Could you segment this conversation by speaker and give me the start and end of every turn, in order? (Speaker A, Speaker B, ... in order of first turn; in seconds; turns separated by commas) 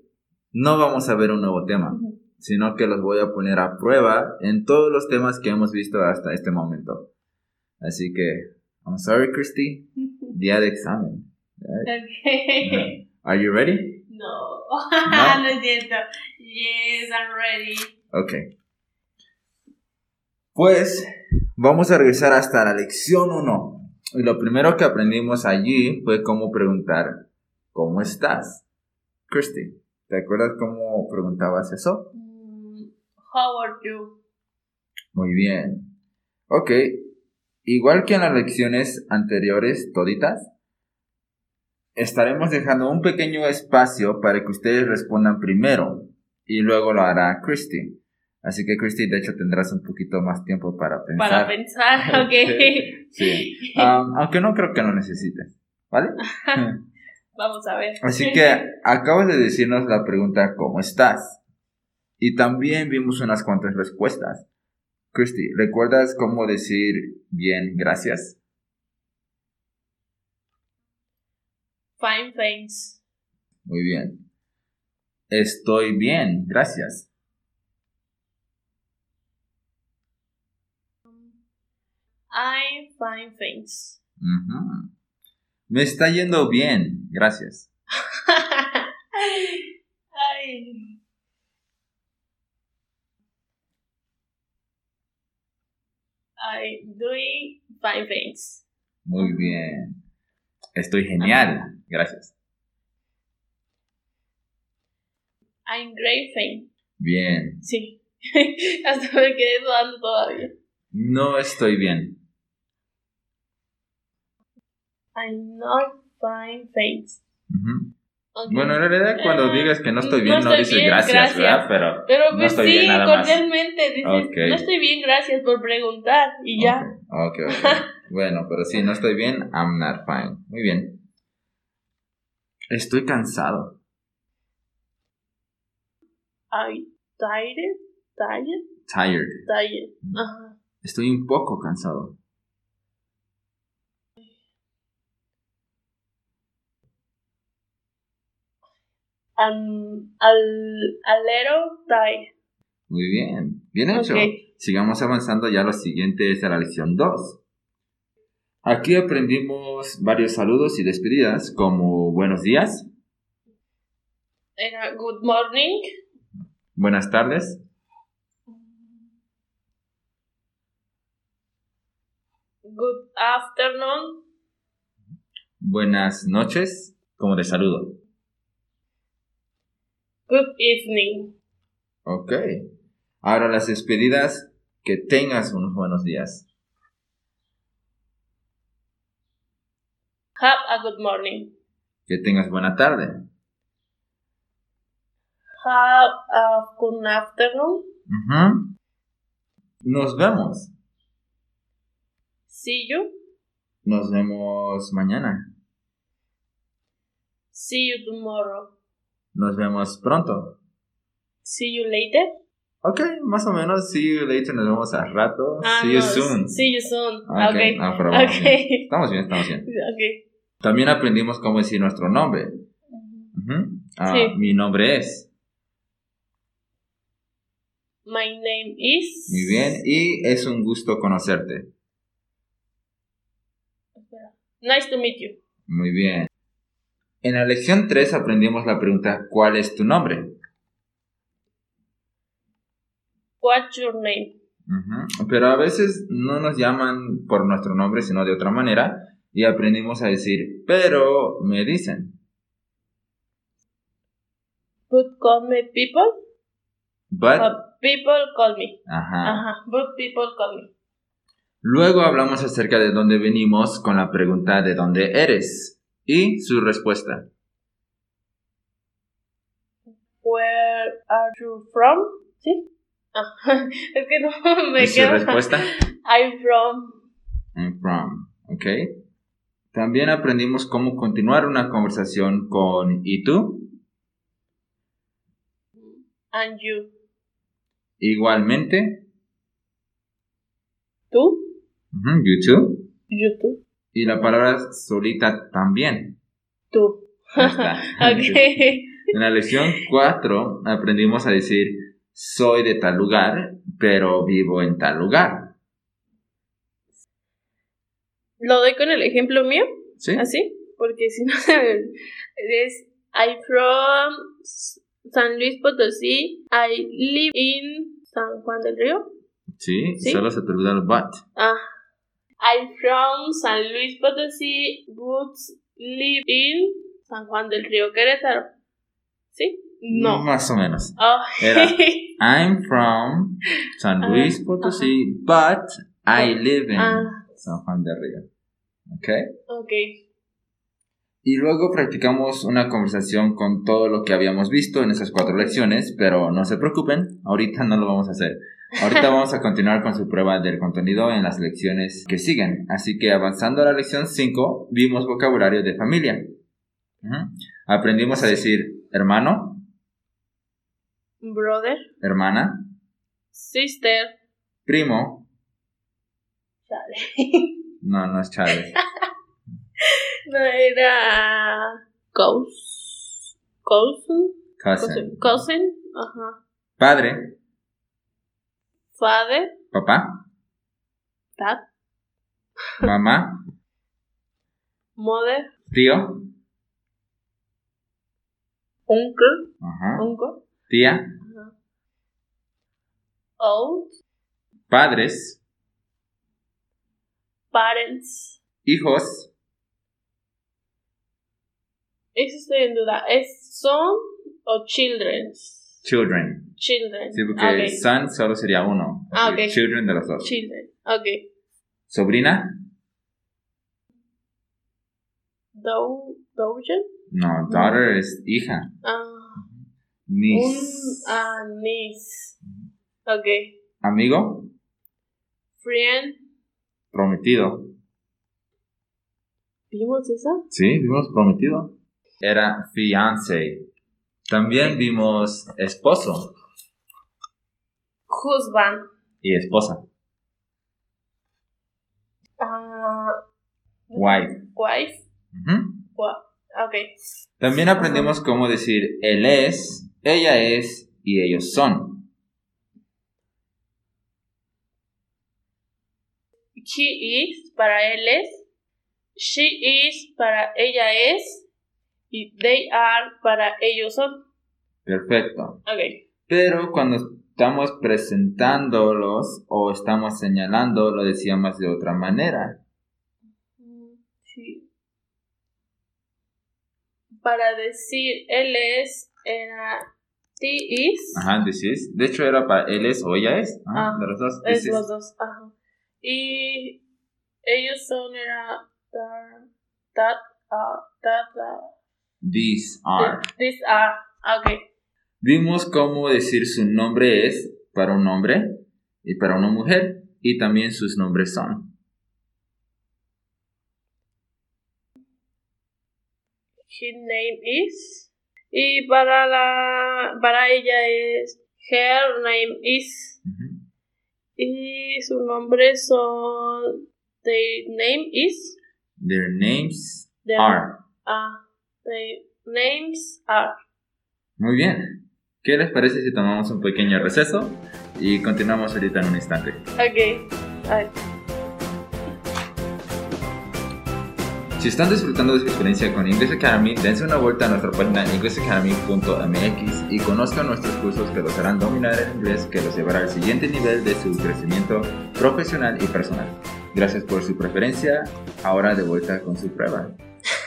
Speaker A: 0.5-7.1, Speaker A: 7.8-11.9, Speaker B: 11.8-12.9, Speaker A: 12.6-14.0, Speaker B: 14.1-17.9, Speaker A: 15.1-15.4, Speaker A: 18.1-18.4, Speaker A: 20.5-21.1, Speaker A: 21.6-27.1, Speaker A: 27.7-28.6, Speaker A: 29.3-32.1, Speaker B: 32.1-34.2, Speaker A: 35.1-35.9, Speaker A: 36.5-37.1, Speaker A: 37.6-40.5, Speaker A: 42.0-56.7, Speaker B: 51.2-53.9, Speaker B: 56.2-56.6, Speaker B: 57.4-58.6, Speaker A: 58.0-61.4, Speaker A: 62.2-64.5, Speaker A: 65.1-68.4, Speaker B: 72.0-73.0, Speaker A: 73.7-74.2, Speaker A: 75.3-77.1, Speaker B: 82.3-84.0, Speaker A: 84.2-84.9, Speaker A: 85.7-87.7, Speaker B: 88.3-89.6, Speaker B: 90.1-91.0, Speaker B: 96.4-98.6, Speaker A: 99.0-99.9, Speaker B: 99.2-99.6, Speaker A: 100.8-102.3, Speaker B: 105.7-106.7, Speaker A: 107.0-107.6, Speaker B: 107.6-110.5, Speaker A: 110.9-112.2, Speaker B: 115.1-117.2, Speaker A: 117.5-117.9, Speaker B: 118.3-126.9, Speaker A: 118.5-123.4, Speaker A: 124.0-124.7, Speaker A: 126.6-131.0, Speaker B: 127.5-127.8, Speaker A: 132.7-133.8, Speaker B: 136.5-138.6, Speaker A: 138.9-139.5, Speaker B: 139.5-140.6, Speaker A: 140.8-142.1, Speaker B: 149.4-152.3, Speaker A: 152.9-157.4, Speaker B: 153.9-154.4, Speaker A: 158.6-162.9, Speaker B: 164.6-165.8, Speaker A: 166.7-167.6, Speaker B: 172.7-174.2, Speaker A: 175.6-177.9, Speaker B: 180.3-181.3, Speaker A: 182.1-182.6, Speaker A: 183.2-186.4, Speaker B: 190.4-191.5, Speaker A: 192.1-193.1, Speaker B: 195.6-197.8, Speaker A: 198.1-198.7, Speaker A: 199.8-200.7, Speaker B: 202.5-203.1, Speaker A: 203.8-205.5, Speaker B: 207.5-208.7, Speaker A: 209.3-210.5, Speaker B: 211.4-212.3, Speaker A: 212.8-216.6, Speaker B: 215.6-218.9, Speaker A: 217.3-219.7, Speaker B: 219.6-220.2, Speaker A: 220.6-222.6, Speaker B: 222.9-223.3, Speaker A: 223.3-225.3, Speaker B: 224.1-224.3, Speaker B: 228.0-229.8, Speaker A: 229.3-231.7, Speaker B: 234.0-235.4, Speaker A: 235.7-236.3, Speaker A: 237.2-240.3, Speaker B: 243.4-244.3, Speaker A: 244.7-252.2, Speaker B: 254.9-256.1, Speaker A: 257.1-257.5, Speaker B: 257.4-260.7, Speaker A: 258.9-259.4, Speaker A: 261.6-267.3, Speaker B: 270.2-277.0, Speaker A: 274.8-275.7, Speaker A: 277.6-279.0, Speaker A: 279.7-283.7, Speaker B: 285.8-286.9, Speaker A: 288.0-289.0, Speaker B: 291.1-291.5, Speaker A: 291.9-292.8, Speaker B: 293.1-293.6, Speaker A: 293.9-296.2, Speaker B: 296.7-299.1, Speaker A: 297.4-305.5, Speaker B: 308.4-319.0, Speaker A: 310.0-310.2, Speaker A: 319.6-321.2, Speaker B: 320.0-320.2, Speaker B: 321.4-321.6, Speaker B: 322.4-328.5, Speaker B: 329.3-330.2, Speaker A: 329.9-338.2, Speaker B: 331.0-332.2, Speaker B: 334.0-334.9, Speaker B: 336.1-337.5, Speaker A: 338.9-339.2, Speaker B: 339.5-340.0, Speaker A: 341.2-356.2, Speaker A: 357.0-359.6, Speaker B: 358.1-358.4, Speaker B: 361.2-361.8, Speaker A: 362.0-362.7, Speaker B: 363.3-364.1, Speaker A: 364.6-365.3, Speaker B: 366.7-367.5, Speaker A: 367.8-368.8, Speaker B: 370.3-376.4, Speaker A: 374.6-375.4, Speaker A: 376.8-377.3, Speaker B: 378.9-379.6, Speaker A: 379.7-380.2, Speaker B: 381.4-381.6, Speaker A: 382.8-383.4, Speaker B: 385.0-385.5, Speaker A: 385.7-386.3, Speaker B: 388.9-390.4, Speaker A: 389.6-390.1, Speaker A: 390.7-391.1, Speaker B: 391.2-391.5, Speaker B: 393.4-393.9, Speaker A: 394.7-395.4, Speaker B: 397.5-398.4, Speaker A: 398.6-399.3, Speaker B: 402.1-405.7, Speaker A: 405.8-406.5, Speaker B: 406.6-407.8, Speaker A: 407.1-410.3, Speaker B: 409.1-409.6, Speaker B: 410.2-411.2, Speaker A: 411.9-412.6, Speaker B: 415.5-416.8, Speaker A: 417.1-418.7, Speaker B: 417.5-417.8, Speaker B: 418.8-419.4, Speaker A: 420.1-421.3, Speaker B: 420.3-422.4, Speaker B: 423.1-423.6, Speaker A: 423.8-424.5, Speaker B: 425.6-426.2, Speaker A: 426.9-427.7, Speaker B: 429.7-430.4, Speaker A: 430.5-433.6, Speaker A: 434.3-436.3, Speaker B: 438.1-438.8, Speaker A: 439.2-439.8, Speaker B: 442.4-443.1, Speaker B: 443.9-445.0, Speaker A: 443.9-444.4, Speaker A: 445.3-445.8, Speaker B: 445.9-446.9, Speaker A: 447.4-452.1, Speaker B: 447.5-448.1, Speaker B: 456.6-458.4, Speaker B: 459.1-461.4, Speaker B: 462.1-464.1, Speaker A: 464.9-465.6, Speaker B: 465.6-466.0, Speaker A: 466.3-472.6, Speaker B: 473.6-474.6, Speaker B: 477.2-479.9, Speaker B: 480.4-481.3, Speaker A: 481.1-484.8, Speaker B: 483.7-486.8, Speaker B: 487.4-491.7, Speaker A: 492.2-493.3, Speaker B: 493.0-494.6, Speaker A: 495.2-501.7, Speaker B: 506.7-513.2, Speaker A: 513.2-513.6, Speaker B: 514.4-516.7, Speaker B: 517.2-518.6, Speaker A: 519.0-520.8, Speaker B: 520.2-523.5, Speaker A: 524.4-529.6, Speaker B: 529.8-530.9, Speaker A: 534.6-550.0